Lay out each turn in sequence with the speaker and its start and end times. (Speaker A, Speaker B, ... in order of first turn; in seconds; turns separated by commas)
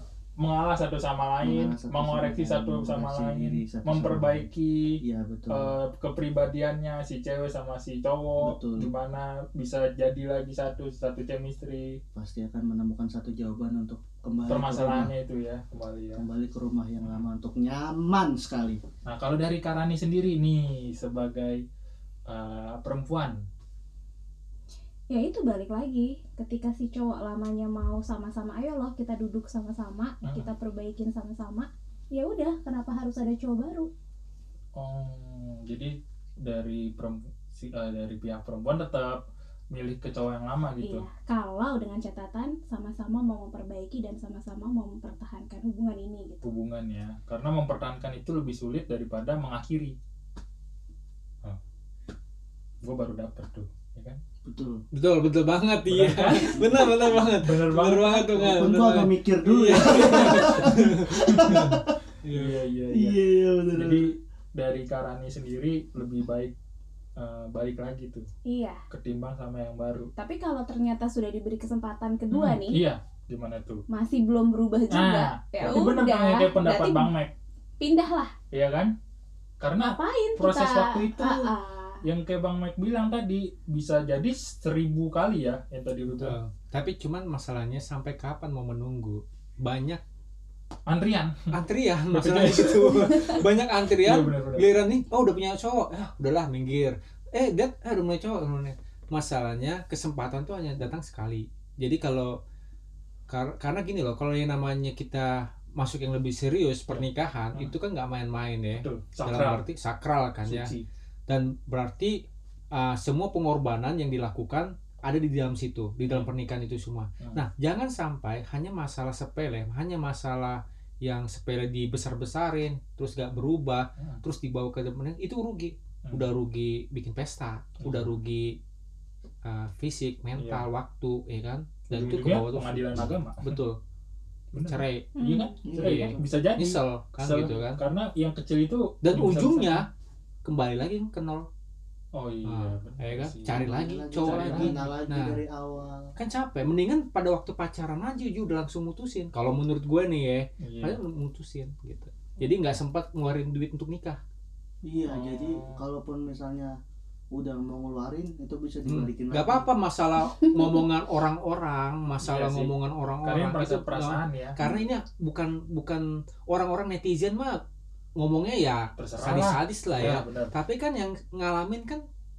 Speaker A: 0.4-12.0, Speaker B: 1.4-4.5, Speaker B: 5.0-5.7, Speaker B: 8.4-8.9, Speaker B: 12.1-15.1, Speaker A: 14.5-16.2, Speaker B: 16.1-18.8, Speaker A: 17.0-17.3, Speaker A: 19.1-21.6, Speaker A: 22.3-23.4, Speaker C: 25.1-33.9, Speaker A: 30.2-30.5, Speaker A: 34.8-41.0, Speaker C: 40.8-46.4, Speaker A: 46.4-50.0, Speaker A: 52.8-54.2, Speaker B: 54.4-54.8, Speaker D: 54.9-62.6, Speaker A: 55.9-58.6, Speaker B: 58.4-61.9, Speaker A: 59.5-61.8, Speaker A: 62.3-63.2, Speaker B: 62.9-64.1, Speaker A: 63.7-66.5, Speaker A: 67.2-68.2, Speaker C: 68.4-68.8, Speaker A: 68.9-70.1, Speaker C: 70.2-72.8, Speaker A: 72.3-73.8, Speaker C: 73.9-77.1, Speaker A: 74.9-77.3, Speaker C: 77.8-78.3, Speaker A: 78.5-78.9, Speaker A: 79.6-81.5, Speaker C: 79.8-82.0, Speaker A: 82.0-86.4, Speaker D: 86.1-90.0, Speaker A: 90.9-91.5, Speaker D: 91.5-102.4, Speaker A: 92.1-93.2, Speaker A: 94.0-94.7, Speaker D: 103.3-110.7, Speaker A: 106.9-107.7, Speaker A: 108.8-109.6, Speaker A: 110.4-110.8, Speaker D: 111.3-112.2, Speaker D: 112.7-128.6, Speaker A: 127.8-128.1, Speaker D: 129.4-133.8, Speaker A: 130.3-130.6, Speaker A: 131.9-133.6, Speaker A: 134.5-139.8, Speaker D: 134.6-135.1, Speaker C: 135.2-135.6, Speaker B: 135.6-136.2, Speaker D: 135.7-137.8, Speaker D: 139.0-139.8, Speaker D: 140.4-141.5, Speaker A: 142.1-144.9, Speaker D: 142.4-145.4, Speaker B: 143.5-146.1, Speaker D: 146.2-154.2, Speaker A: 150.6-151.0, Speaker B: 154.8-156.8, Speaker A: 155.0-155.8, Speaker B: 157.3-159.7, Speaker D: 158.8-167.6, Speaker C: 160.4-160.8, Speaker A: 162.2-162.7, Speaker A: 163.2-164.6, Speaker D: 168.2-172.0, Speaker A: 169.0-170.5